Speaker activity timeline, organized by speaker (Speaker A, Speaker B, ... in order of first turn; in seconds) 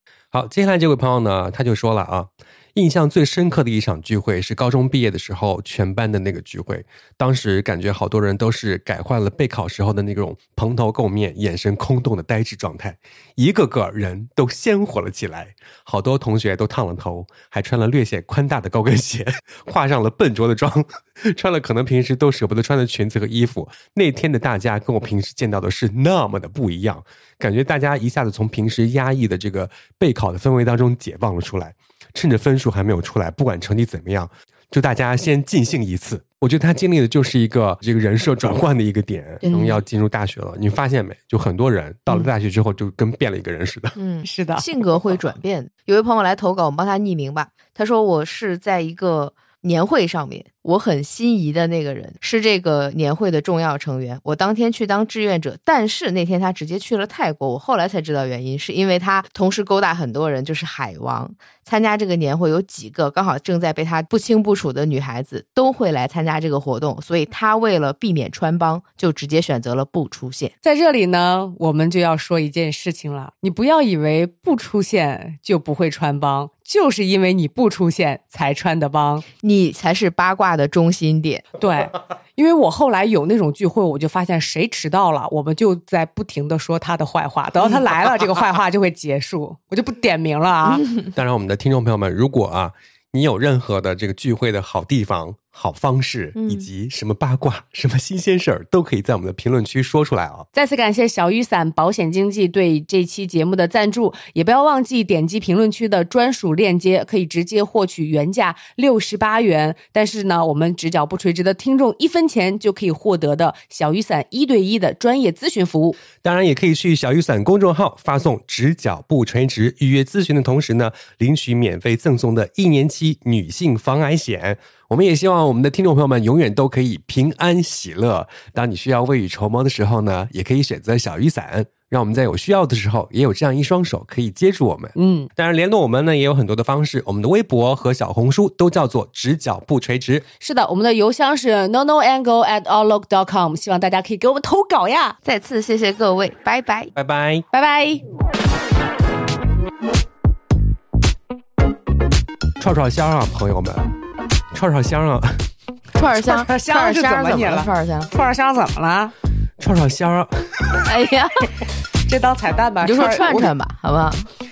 Speaker A: 0.3-44.0, 91.1-100.5, 116.2-140.2, 146.9-147.4, 152.6-153.8, 154.5-155.4, 159.6-160.3
Speaker B: 39.4-39.8, 44.2-44.7, 70.6-79.2, 81.6-90.8, 100.5-116.0, 134.9-135.3, 140.4-145.2, 147.5-148.0, 156.0-159.1, 162.0-163.5
Speaker C: 44.0-70.5, 79.4-81.5, 90.7-91.0, 96.3-96.7, 145.2-146.9, 155.9-158.1, 160.8-161.5, 162.8-164.3